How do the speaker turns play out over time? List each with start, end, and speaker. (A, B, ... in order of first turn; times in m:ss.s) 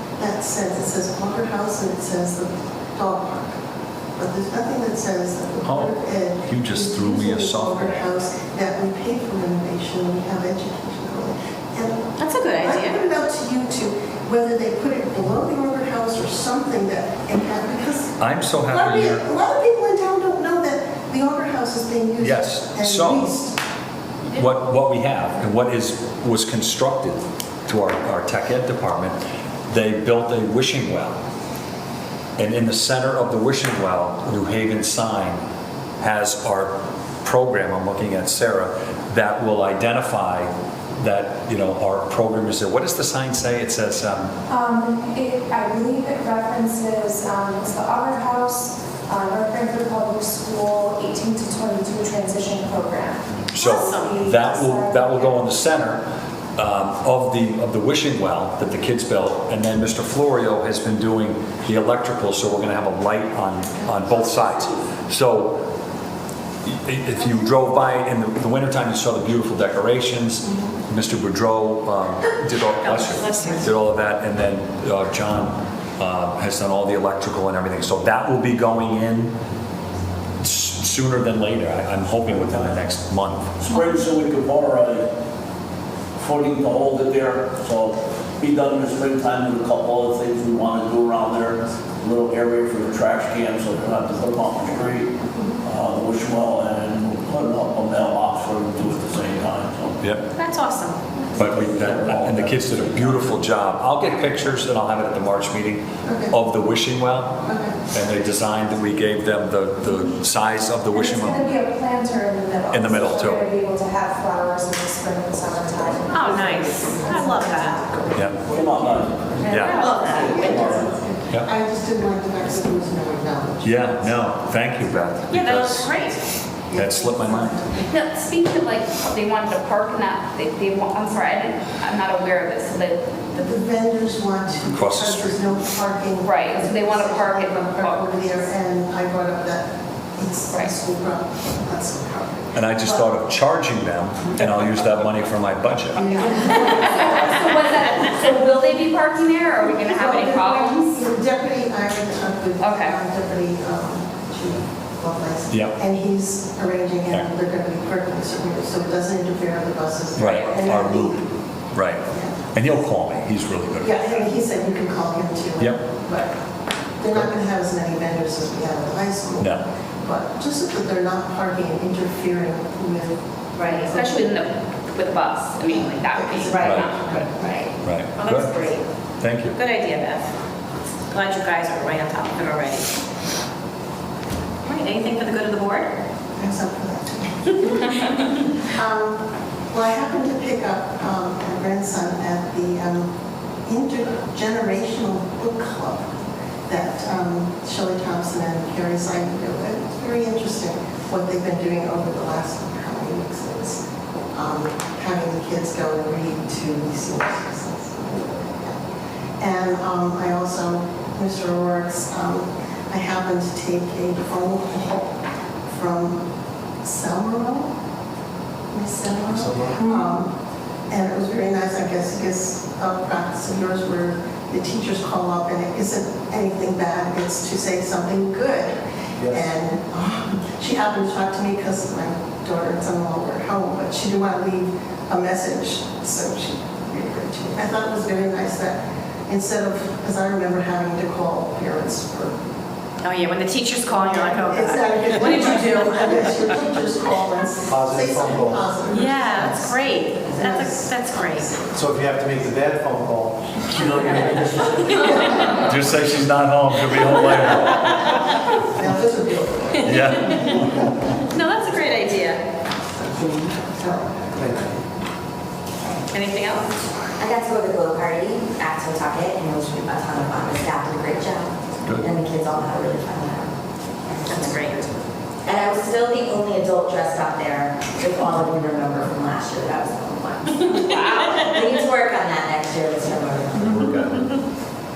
0:00.2-0:03.6 A
0:04.2-0:23.6 A
0:05.6-0:08.1 B
0:12.2-0:13.0 C
0:18.2-0:19.2 B
0:22.2-0:23.3 B
0:24.3-0:31.2 B
0:32.4-0:35.4 B
0:36.0-0:44.3 B
0:44.5-0:55.5 D
0:53.5-1:05.6 B
0:53.6-0:54.2 C
1:03.9-1:04.6 A
1:06.6-1:19.3 B
1:10.4-1:10.8 A
1:12.8-1:13.7 C
1:20.4-1:23.5 B
1:23.6-1:25.1 E
1:26.2-1:40.0 E
1:40.0-1:40.3 B
1:40.4-1:41.0 C
1:41.4-1:51.5 B
1:41.5-1:43.2 E
1:46.0-1:46.4 A
1:47.4-1:47.8 A
1:50.9-1:58.4 D
1:52.7-1:53.4 B
1:56.0-2:04.2 A
1:56.1-1:57.8 C
1:58.1-1:58.4 B
1:58.5-1:59.2 E
1:59.4-1:59.9 B
1:59.7-2:00.3 C
2:00.0-2:00.9 E
2:03.6-2:05.9 B
2:05.3-2:06.2 C
2:06.7-2:08.0 A
2:06.7-2:07.6 B
2:07.9-2:13.2 F
2:13.3-2:23.1 A
2:14.7-2:15.5 B
2:16.2-2:18.5 F
2:22.6-2:26.0 B
2:26.0-2:28.4 A
2:26.1-2:31.0 F
2:29.8-2:41.3 A
2:32.6-2:33.0 F
2:35.5-2:35.8 B
2:40.2-2:41.2 B
2:41.7-2:44.3 B
2:42.1-2:42.5 A
2:43.8-2:46.4 A
2:47.0-2:54.2 A
2:49.4-2:49.7 B
2:53.6-2:53.9 G
2:53.9-2:57.1 F
2:55.7-2:57.1 A
2:56.5-2:57.7 G
2:56.6-2:56.9 B
2:57.8-2:58.5 B
2:58.2-2:58.8 C
2:59.2-2:59.6 B
2:59.6-3:00.3 C
3:01.1-3:02.9 C
3:04.6-3:05.9 C
3:06.4-3:13.1 A
3:13.6-3:16.1 A
3:16.7-3:28.8 A
3:29.4-3:35.1 A
3:35.7-3:36.2 A
3:36.8-3:37.7 A
3:38.7-3:40.3 A
3:39.3-3:39.8 H
3:40.9-3:48.8 A
3:49.2-3:49.4 H
3:49.3-4:02.4 A
4:03.0-4:06.2 C
4:03.9-4:11.8 A
4:07.7-4:08.7 H
4:08.9-4:11.6 C
4:11.7-4:15.4 H
4:15.6-4:18.0 B
4:18.6-4:20.7 A
4:19.8-4:20.7 B
4:21.3-4:22.4 C
4:24.3-4:24.7 H
4:26.1-4:26.7 C
4:27.2-4:33.5 G
4:34.1-4:34.8 G
4:34.3-4:34.9 C
4:35.4-4:43.9 G
4:40.8-4:41.5 F
4:43.6-4:44.3 B